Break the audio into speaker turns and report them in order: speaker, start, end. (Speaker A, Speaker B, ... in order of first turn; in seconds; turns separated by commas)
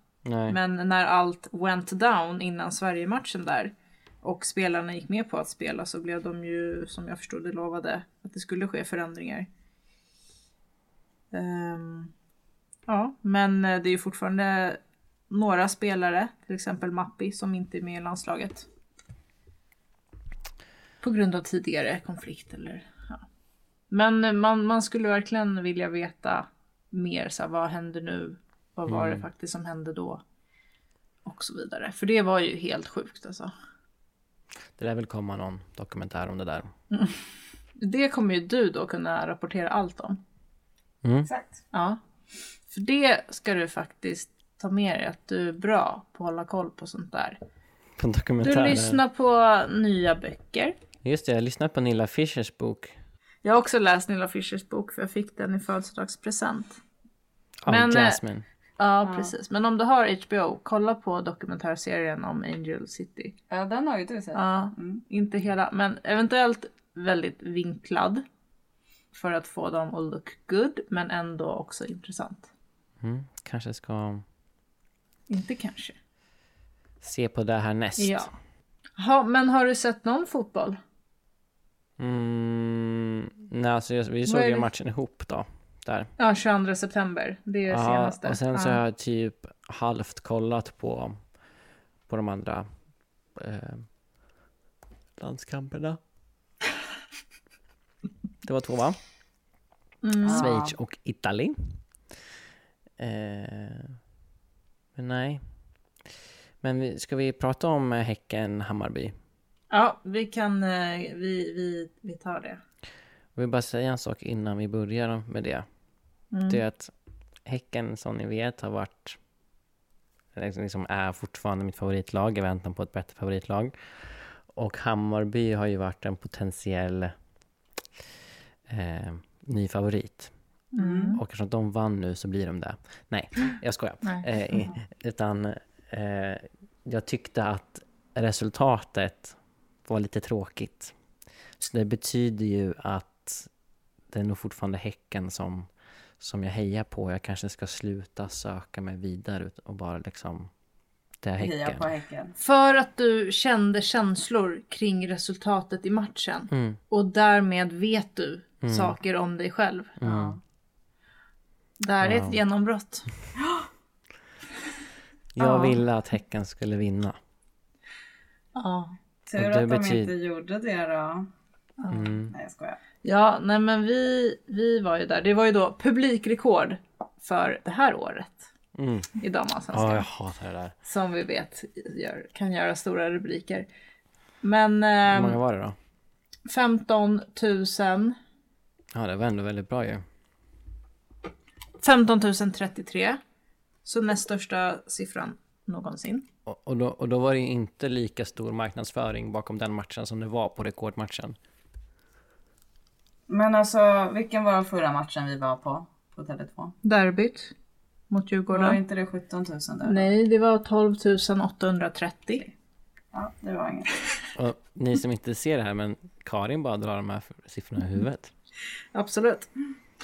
Speaker A: 0.2-0.6, Speaker B: 0.5-9.5, Speaker B: 11.3-12.1, Speaker B: 12.9-14.8, Speaker B: 15.3-18.7, Speaker B: 21.0-23.2, Speaker B: 23.9-30.2, Speaker A: 28.9-29.2, Speaker B: 31.2-33.5, Speaker A: 34.8-36.7, Speaker B: 36.9-37.2, Speaker B: 37.8-40.2, Speaker A: 41.0-41.3, Speaker C: 41.3-41.6, Speaker B: 41.7-42.0, Speaker B: 42.7-47.4, Speaker A: 48.0-49.0, Speaker B: 48.4-50.8, Speaker A: 51.0-52.9, Speaker B: 53.4-56.8, Speaker A: 57.6-58.4, Speaker B: 57.7-58.2, Speaker B: 58.8-63.3, Speaker C: 59.0-59.3, Speaker C: 63.5-65.0, Speaker B: 64.3-68.2, Speaker B: 69.1-72.5, Speaker A: 73.0-74.2, Speaker B: 75.3-76.0, Speaker A: 77.0-78.3, Speaker B: 78.0-78.3, Speaker B: 79.0-80.8, Speaker A: 82.0-86.1, Speaker B: 84.3-84.7, Speaker B: 86.2-88.8, Speaker A: 87.7-91.2, Speaker A: 92.1-92.7, Speaker A: 93.3-93.9, Speaker A: 95.2-96.0, Speaker A: 98.4-99.0, Speaker B: 100.0-100.5, Speaker C: 100.2-100.8, Speaker A: 100.3-101.8, Speaker A: 103.0-104.0, Speaker A: 105.0-105.4, Speaker A: 106.6-109.2, Speaker B: 109.7-112.6, Speaker A: 113.4-115.7, Speaker B: 116.3-116.6, Speaker A: 116.5-116.9, Speaker A: 117.5-119.2, Speaker A: 120.3-127.1, Speaker A: 128.7-130.3, Speaker B: 130.7-131.2, Speaker C: 130.8-131.2, Speaker A: 131.1-140.9, Speaker A: 141.6-143.5, Speaker A: 144.1-150.5, Speaker A: 151.2-151.9, Speaker C: 151.4-152.3, Speaker B: 152.4-160.0, Speaker A: 156.5-156.8, Speaker A: 158.6-159.0, Speaker A: 160.0-160.4, Speaker C: 160.0-160.4, Speaker B: 161.8-163.1, Speaker A: 162.0-162.4, Speaker A: 165.3-167.2, Speaker B: 165.4-165.8, Speaker B: 168.6-168.9, Speaker C: 169.3-171.3, Speaker A: 169.3-170.1, Speaker B: 171.8-172.2, Speaker A: 171.9-172.3, Speaker C: 172.3-172.8, Speaker B: 173.0-178.5, Speaker A: 178.8-179.1, Speaker B: 179.2-180.1, Speaker A: 179.7-180.8, Speaker B: 180.8-183.7, Speaker B: 184.4-185.4, Speaker A: 185.1-185.8, Speaker B: 186.5-188.2, Speaker A: 188.9-190.0, Speaker B: 191.8-193.2, Speaker B: 193.8-196.2, Speaker A: 196.5-201.4, Speaker C: 203.3-206.8, Speaker B: 206.8-207.5, Speaker B: 208.1-208.8, Speaker C: 208.5-210.1, Speaker B: 209.8-212.4, Speaker C: 213.1-213.9, Speaker A: 214.4-218.3, Speaker B: 218.9-219.5